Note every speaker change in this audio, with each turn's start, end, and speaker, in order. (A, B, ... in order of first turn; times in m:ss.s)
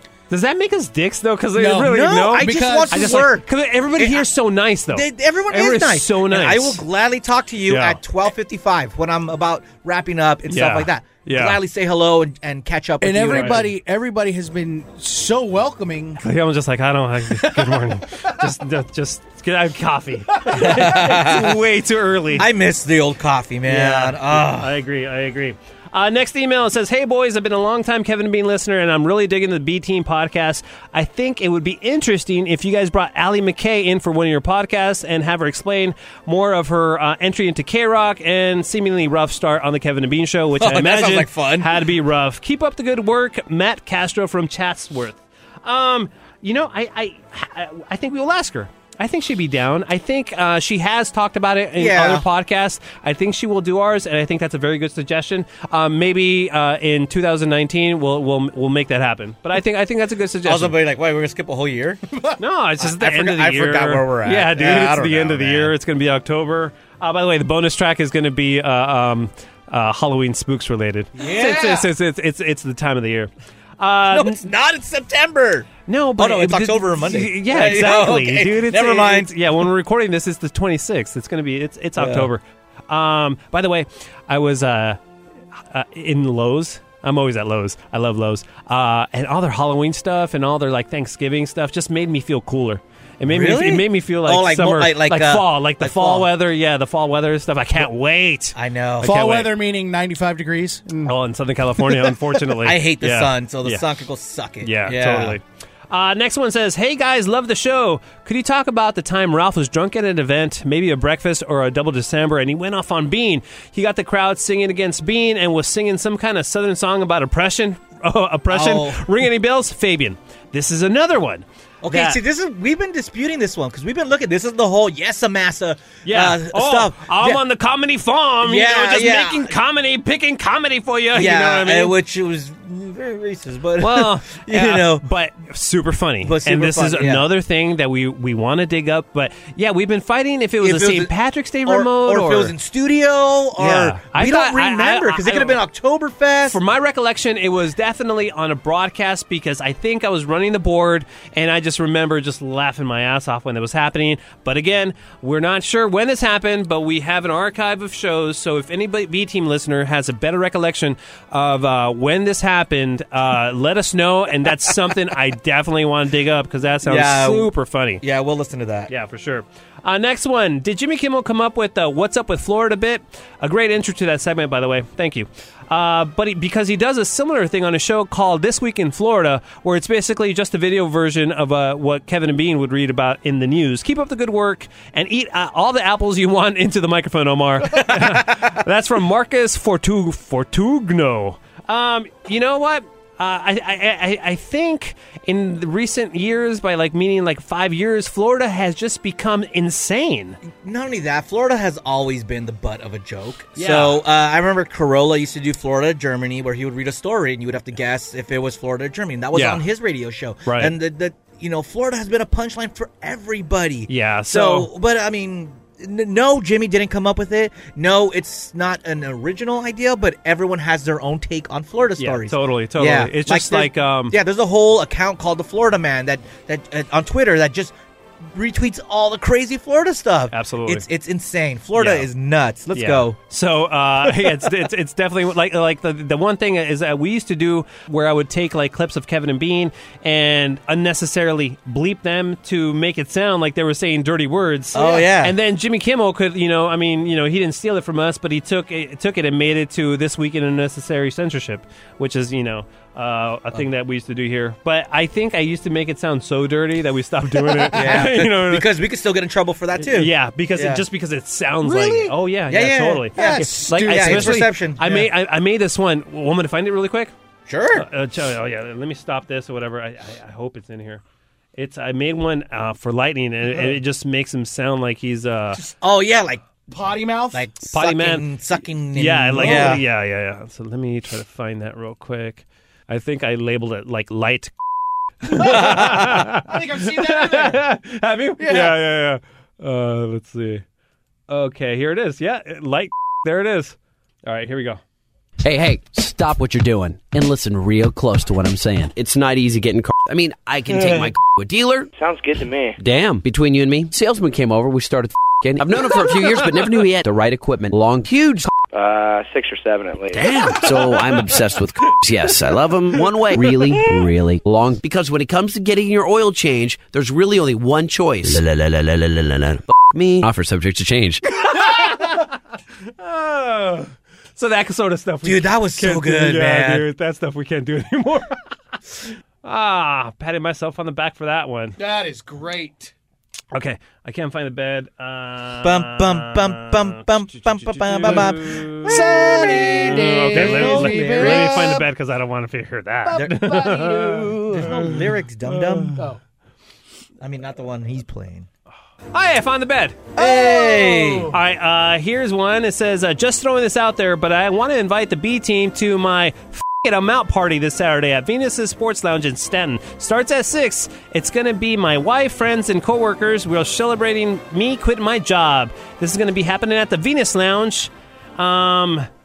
0:00.3-0:06.8 A
0:01.6-0:03.3 B
0:01.8-0:04.3 C
0:04.9-0:13.7 C
0:07.7-0:08.0 A
0:10.5-0:11.6 A
0:13.0-0:16.2 B
0:13.3-0:13.7 A
0:16.2-0:22.5 A
0:17.4-0:17.8 B
0:20.5-0:21.6 C
0:22.3-0:24.8 C
0:23.7-1:00.8 A
0:40.6-0:41.9 C
0:51.8-0:52.2 C
1:00.4-1:02.0 C
1:02.4-1:14.4 A
1:02.8-1:05.8 C
1:11.2-1:11.8 C
1:14.1-1:19.3 C
1:15.9-1:25.0 A
1:22.0-1:22.3 C
1:25.7-1:39.6 A
1:33.3-1:36.3 C
1:38.6-1:39.1 C
1:39.0-1:41.1 B
1:41.1-1:43.8 A
1:42.6-1:45.4 C
1:44.6-2:02.2 A
1:58.5-1:59.2 C
2:01.8-2:07.4 C
2:06.0-2:12.0 A
2:08.4-2:09.5 C
2:11.1-2:15.0 C
2:13.8-2:22.5 A
2:16.2-2:17.3 C
2:20.6-2:21.1 C
2:21.6-2:26.6 C
2:23.6-2:25.6 A
2:26.5-2:48.0 A
2:46.8-2:48.9 C
2:48.9-3:20.4 A
3:07.8-3:08.3 C
3:20.5-3:47.7 C
3:23.6-3:24.0 A
3:29.3-3:29.6 A
3:30.4-3:30.8 A
3:33.9-3:34.7 A
3:42.0-3:44.2 A
3:48.3-3:53.2 C
3:50.3-3:50.8 A
3:51.8-3:52.1 A
3:52.7-4:18.7 A
4:04.7-4:05.4 C
4:17.4-4:17.8 B
4:17.7-4:20.8 C
4:19.8-4:27.1 A
4:21.6-4:22.1 B
4:22.5-4:25.1 C
4:23.2-4:24.5 B
4:27.5-4:27.9 C
4:27.7-4:31.0 A
4:31.6-4:35.6 A
4:35.8-4:36.5 C
4:36.7-4:37.5 B
4:37.3-4:39.8 C
4:37.7-4:38.3 A
4:38.9-4:44.5 A
4:39.4-4:39.8 B
4:45.3-4:50.6 A
4:45.3-4:47.7 B
4:45.4-4:46.2 C
4:48.4-4:48.8 B
4:51.3-4:54.8 A
4:55.4-5:01.9 D
5:02.0-5:02.8 E
5:02.8-5:08.5 D
5:08.7-5:10.3 E
5:10.1-5:21.2 D
5:21.4-5:22.3 A
5:23.0-5:28.4 A
5:25.2-5:26.9 C
5:29.4-5:31.8 A
5:31.8-5:32.9 B
5:33.5-5:44.9 A
5:35.6-5:41.8 C
5:38.9-5:41.8 B
5:43.1-5:44.7 B
5:43.1-5:43.6 C
5:44.5-5:46.0 C
5:45.9-5:46.2 B
5:47.2-5:48.5 C
5:49.1-5:50.2 A
5:50.2-5:51.4 C
5:50.2-5:51.4 B
5:51.3-6:09.1 A